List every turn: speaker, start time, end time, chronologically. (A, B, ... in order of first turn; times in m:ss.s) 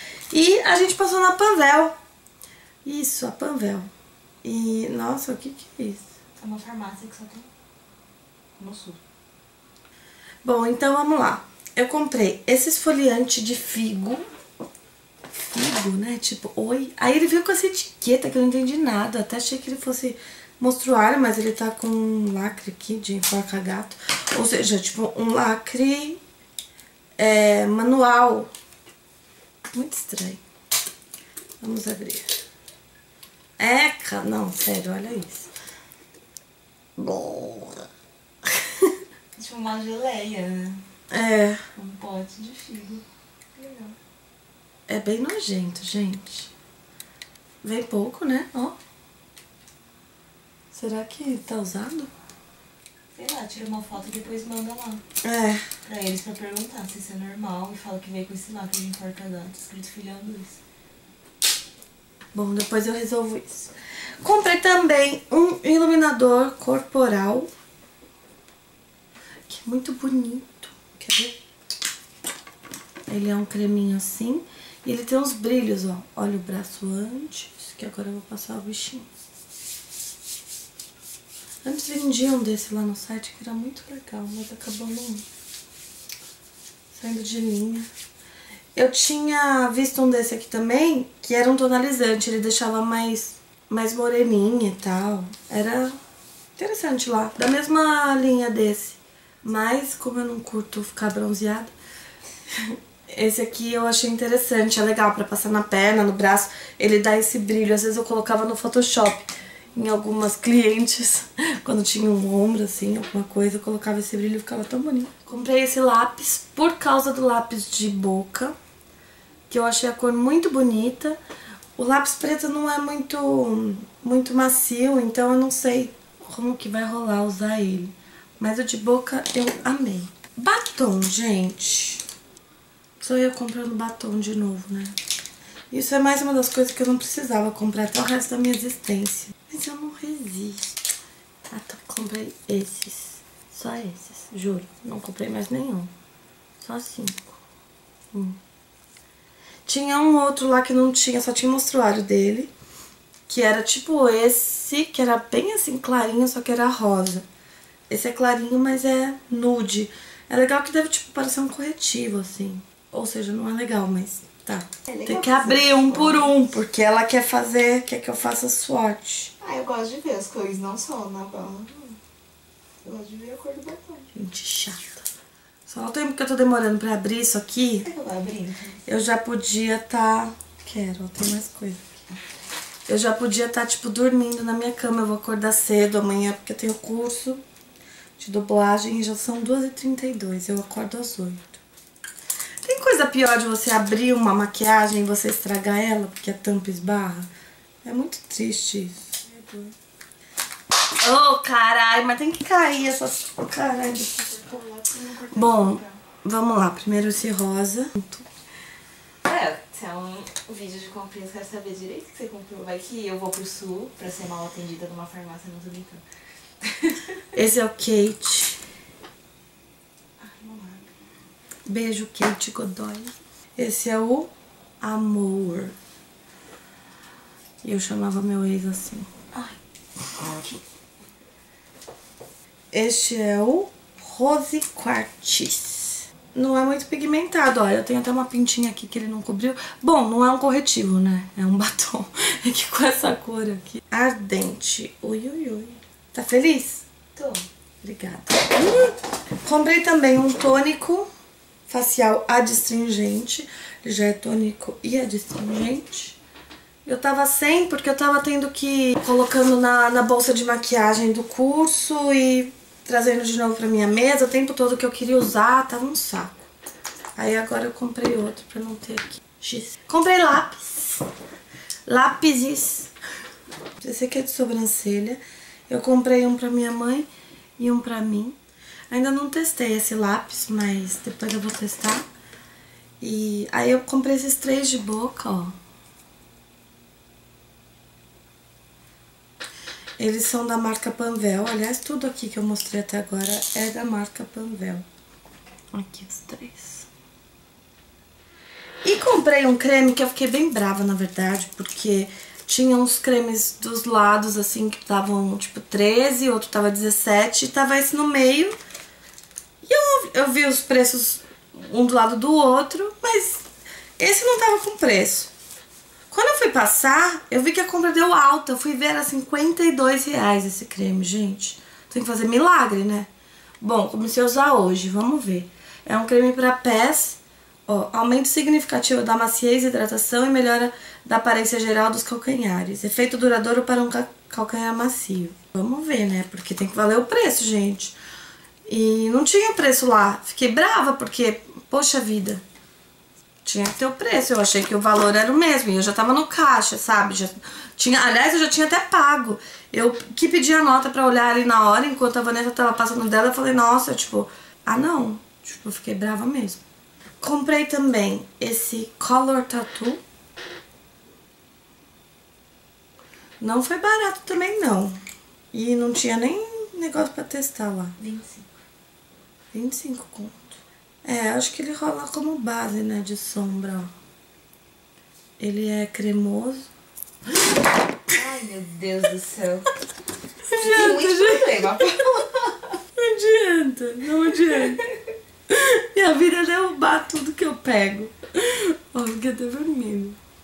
0:00.3-0:01.9 A
0:02.8-0:03.9 A
0:04.4-0:06.1 A
0:06.4-0:07.5 B
0:08.6-0:09.0 B
0:10.4-0:14.2 A
0:15.3-0:26.2 A
0:27.2-0:28.5 A
0:29.7-0:30.4 A
0:31.6-0:32.3 A
0:33.6-0:35.5 A
0:37.0-0:37.8 A
0:39.4-0:40.8 B
0:41.1-0:41.6 A
0:41.8-0:43.0 B
0:43.6-0:44.0 B
0:44.9-0:46.5 A
0:47.6-0:48.8 A
0:50.7-0:52.1 A
0:53.1-0:55.0 B
0:55.2-0:55.7 A
0:55.8-1:00.6 B
1:02.3-1:07.5 A
1:09.5-1:11.4 A
1:13.1-1:19.1 A
1:21.6-1:25.2 A
1:26.9-1:27.9 A
1:28.8-1:36.0 A
1:36.6-1:41.7 A
1:42.6-1:58.6 A
1:59.5-2:01.2 A
2:01.8-2:12.0 A
2:13.0-2:15.0 A
2:15.7-2:20.8 A
2:21.5-2:25.9 A
2:26.6-2:27.4 A
2:28.1-2:28.4 A
2:29.7-2:32.5 A
2:33.3-2:37.3 A
2:37.9-2:49.3 A
2:44.9-2:46.4 B
2:49.4-2:52.0 B
2:52.8-2:54.1 B
2:54.1-2:55.1 A
2:55.7-2:57.9 A
2:57.8-2:58.8 B
2:58.9-3:01.8 A
3:02.9-3:07.4 A
3:08.2-3:11.6 A
3:12.6-3:17.3 A
3:17.8-3:19.7 A
3:21.0-3:24.5 A
3:24.3-3:26.0 B
3:25.3-3:28.3 A
3:29.2-3:36.0 B
3:36.6-3:37.1 B
3:37.3-3:38.6 A
3:40.2-3:40.9 B
3:41.7-3:45.8 A
3:47.6-3:49.1 A
3:50.2-3:50.6 B
3:52.7-4:06.9 A
4:07.2-4:07.5 B
4:07.8-4:11.1 A
4:11.7-4:16.2 A
4:16.8-4:26.5 A
4:27.2-4:31.1 A
4:31.9-4:32.9 A
4:33.8-4:38.4 A
4:38.9-4:42.0 A
4:43.0-4:45.6 A
4:50.0-4:54.8 A
4:55.7-4:56.9 A
4:58.8-5:08.6 A
5:09.6-5:13.5 A
5:14.0-5:15.3 A
5:16.1-5:23.1 A
5:23.6-5:38.0 A
5:38.7-5:42.4 A
5:43.4-5:56.6 A
5:57.2-6:00.0 A
6:03.4-6:04.9 A
6:05.5-6:08.0 A
6:08.0-6:08.5 B
6:09.5-6:13.9 A
6:15.4-6:16.7 A
6:18.1-6:19.7 B
6:20.4-6:21.8 A
6:20.5-6:22.6 B
6:23.0-6:24.9 A
6:25.5-6:30.2 A